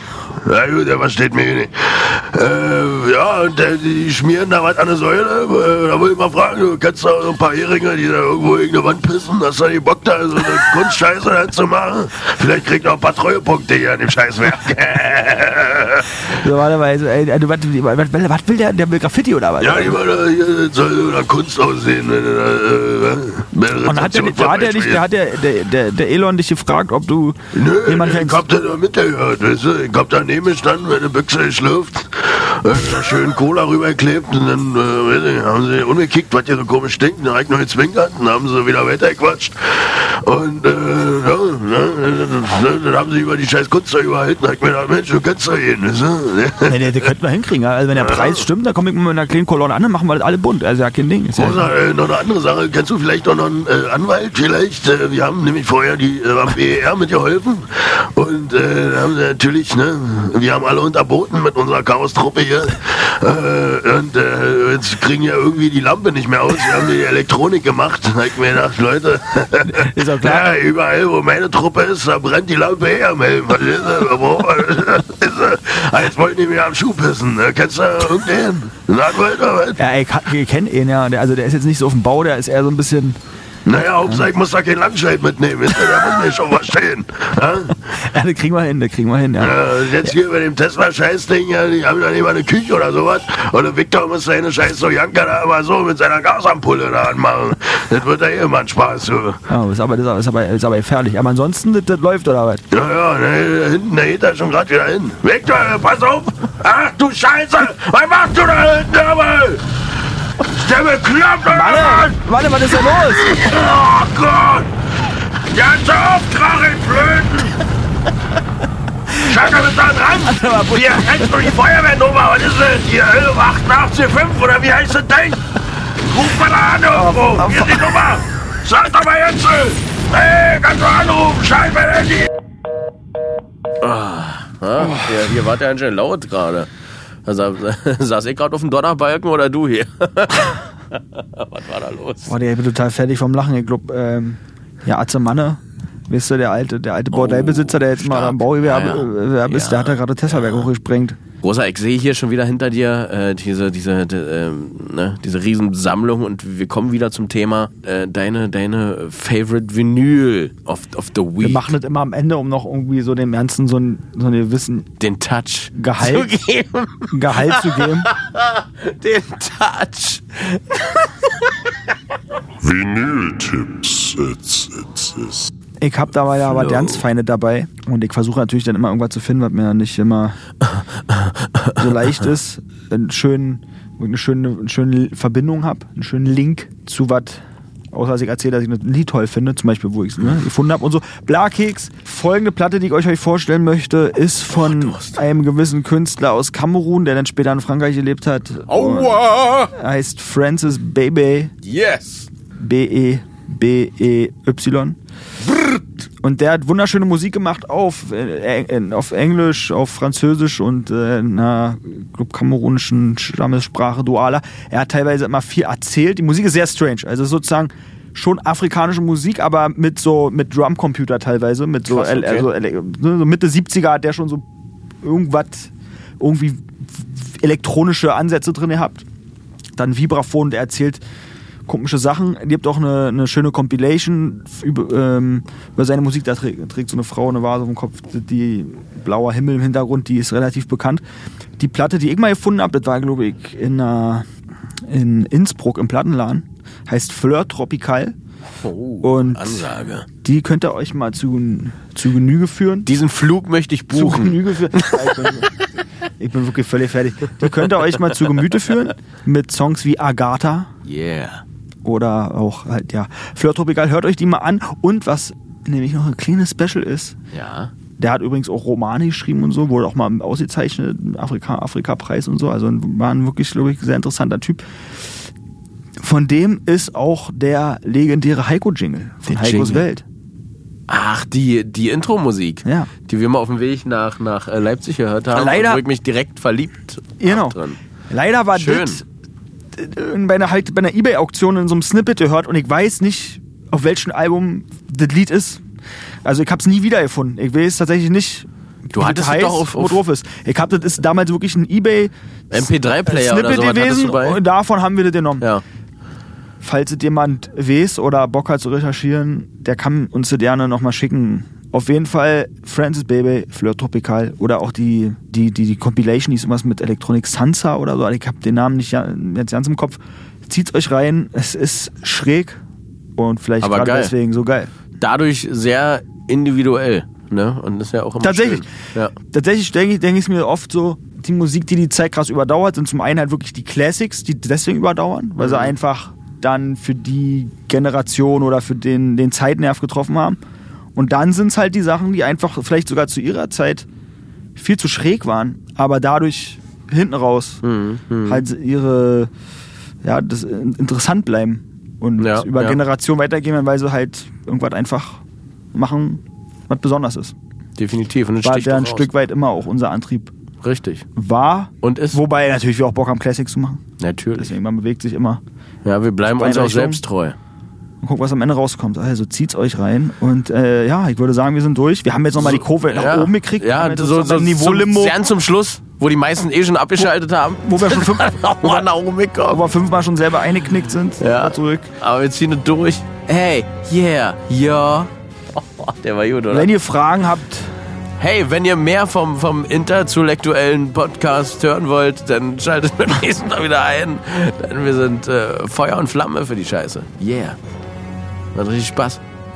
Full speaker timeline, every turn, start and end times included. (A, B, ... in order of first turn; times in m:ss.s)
0:00.4-0:16.2 A
0:16.3-0:20.0 B
0:19.6-0:25.0 A
0:23.8-0:28.5 B
0:27.5-0:46.8 A
0:46.6-0:51.7 B
0:48.0-0:48.4 A
0:51.4-1:19.8 A
1:09.6-1:10.5 B
1:19.8-1:23.2 B
1:23.6-1:27.9 A
1:27.9-1:30.1 B
1:29.4-1:39.4 A
1:39.5-1:42.6 B
1:42.7-1:49.6 A
1:50.4-1:52.1 A
1:51.5-1:53.3 B
1:52.9-1:54.7 A
1:55.5-1:57.6 A
1:59.1-2:12.3 A
2:00.2-2:01.5 B
2:07.0-2:08.0 B
2:13.8-2:16.7 C
2:14.8-2:15.1 B
2:17.2-2:22.3 C
2:22.2-2:31.2 B
2:27.1-2:30.6 C
2:31.4-2:41.7 C
2:41.4-2:44.9 B
2:45.0-2:51.5 C
2:45.7-2:46.3 B
2:47.1-2:48.1 B
2:52.6-2:55.5 D
2:55.8-3:00.4 B
2:56.6-2:57.0 C
3:00.7-3:01.8 C
3:01.8-3:21.5 B
3:14.5-3:15.2 C
3:18.7-3:19.7 C
3:21.6-3:22.3 C
3:22.6-3:25.0 B
3:25.5-3:25.8 C
3:26.2-3:44.4 B
3:41.9-3:42.5 C
3:45.0-3:49.0 B
3:49.8-3:51.0 B
3:51.7-4:01.0 B
4:01.6-4:04.2 B
4:04.8-4:08.2 B
4:08.6-4:10.1 C
4:09.0-4:09.7 B
4:10.2-4:12.9 B
4:12.8-4:15.4 C
4:13.9-4:15.5 B
4:16.2-4:20.7 B
4:20.8-4:21.4 C
4:21.8-4:27.2 B
4:27.3-4:27.7 C
4:28.0-4:35.2 B
4:36.0-4:40.0 B
4:39.3-4:39.9 C
4:40.9-4:47.8 C
4:42.6-4:42.9 B
4:45.3-4:45.8 B
4:47.2-4:49.0 B
4:48.5-4:49.0 C
4:49.7-4:55.6 B
4:56.2-5:05.4 B
4:58.9-5:00.0 C
5:02.5-5:04.4 C
5:06.6-5:22.6 B
5:23.2-5:24.7 B
5:23.6-5:24.1 C
5:25.0-5:29.1 C
5:28.2-5:40.4 B
5:35.4-5:35.7 C
5:41.0-5:43.8 B
5:44.6-5:47.6 B
5:47.6-5:48.4 C
5:48.2-5:49.3 B
5:50.0-5:57.3 B
5:52.2-5:52.8 C
5:57.8-5:59.1 C
5:58.4-6:00.3 B
6:00.6-6:01.0 C
6:01.2-6:03.8 B
6:01.8-6:02.2 C
6:04.0-6:04.6 C
6:04.4-6:05.4 B
6:05.8-6:07.4 C
6:06.3-6:07.0 B
6:08.0-6:15.2 B
6:12.4-6:19.7 C
6:17.6-6:18.9 B
6:19.5-6:21.9 B
6:21.2-6:26.7 C
6:26.5-6:27.8 B
6:28.2-6:37.6 C
6:38.5-6:39.2 C